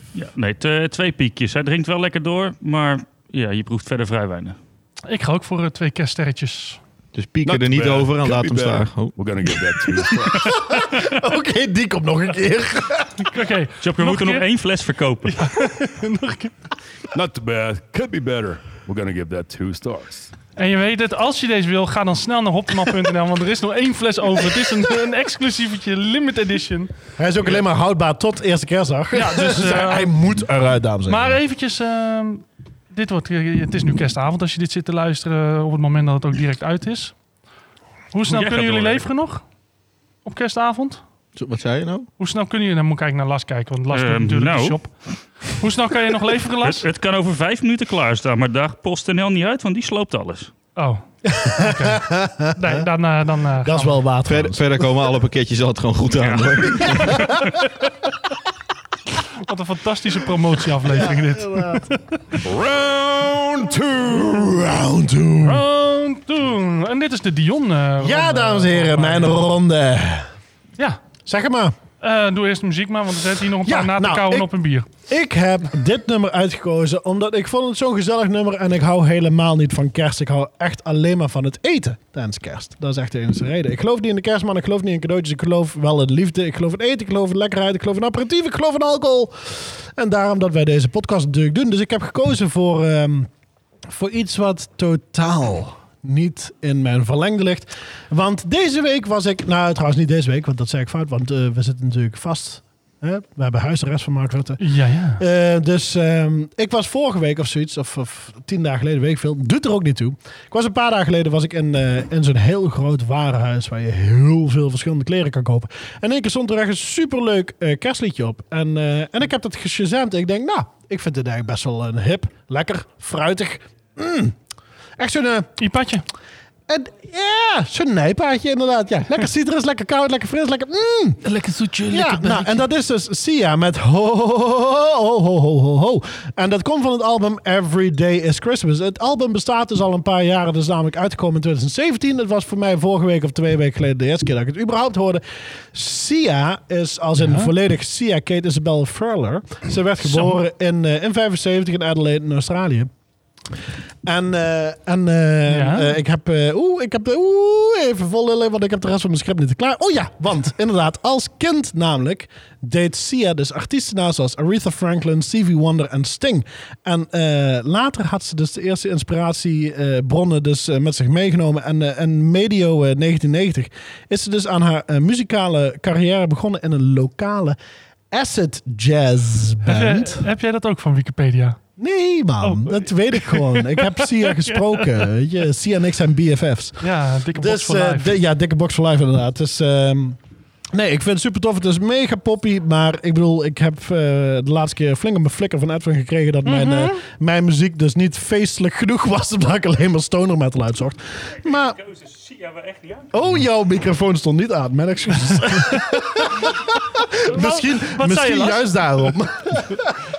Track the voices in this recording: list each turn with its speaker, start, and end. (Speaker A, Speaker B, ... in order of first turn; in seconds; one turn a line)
Speaker A: 0.1-4.6
Speaker B: 5.0-6.8
Speaker C: 7.1-9.2
Speaker D: 7.4-10.5
Speaker E: 10.3-13.3
Speaker B: 13.2-14.4
Speaker A: 13.8-15.4
Speaker B: 15.3-16.6
Speaker D: 17.1-20.3
Speaker B: 20.6-26.9
Speaker E: 27.2-31.4
Speaker B: 29.1-30.1
Speaker B: 31.1-37.1
Speaker B: 38.1-39.4
Speaker A: 38.2-39.0
Speaker B: 40.2-41.0
Speaker C: 41.4-42.1
Speaker B: 42.2-44.9
Speaker A: 43.9-44.8
Speaker B: 45.5-46.8
Speaker A: 46.6-50.5
Speaker B: 50.8-54.0
Speaker E: 51.3-52.8
Speaker E: 53.6-54.9
Speaker C: 54.2-57.1
Speaker A: 56.2-57.3
Speaker B: 59.4-62.4
Speaker E: 60.9-61.9
Speaker D: 62.4-64.6
Speaker E: 64.1-65.6
Speaker B: 65.4-69.5
Speaker E: 68.0-70.3
Speaker E: 71.2-71.7
Speaker B: 72.0-74.9
Speaker E: 73.6-93.3
Speaker E: 93.9-104.6
Speaker B: 104.6-105.2
Speaker E: 105.2-124.4
Speaker E: 125.0-125.5
Speaker B: 125.6-126.0
Speaker E: 126.7-131.3
Speaker B: 131.3-132.6
Speaker E: 131.9-152.9
Speaker B: 147.2-147.5
Speaker B: 150.0-150.4
Speaker E: 154.0-177.6
Speaker B: 155.5-156.0
Speaker E: 178.1-180.2
Speaker B: 179.6-181.6
Speaker E: 181.8-186.8
Speaker B: 182.4-184.9
Speaker B: 186.8-188.1
Speaker E: 187.3-190.2
Speaker E: 190.7-201.8
Speaker B: 196.4-197.0
Speaker A: 201.7-203.1
Speaker E: 203.1-209.8
Speaker B: 207.2-208.7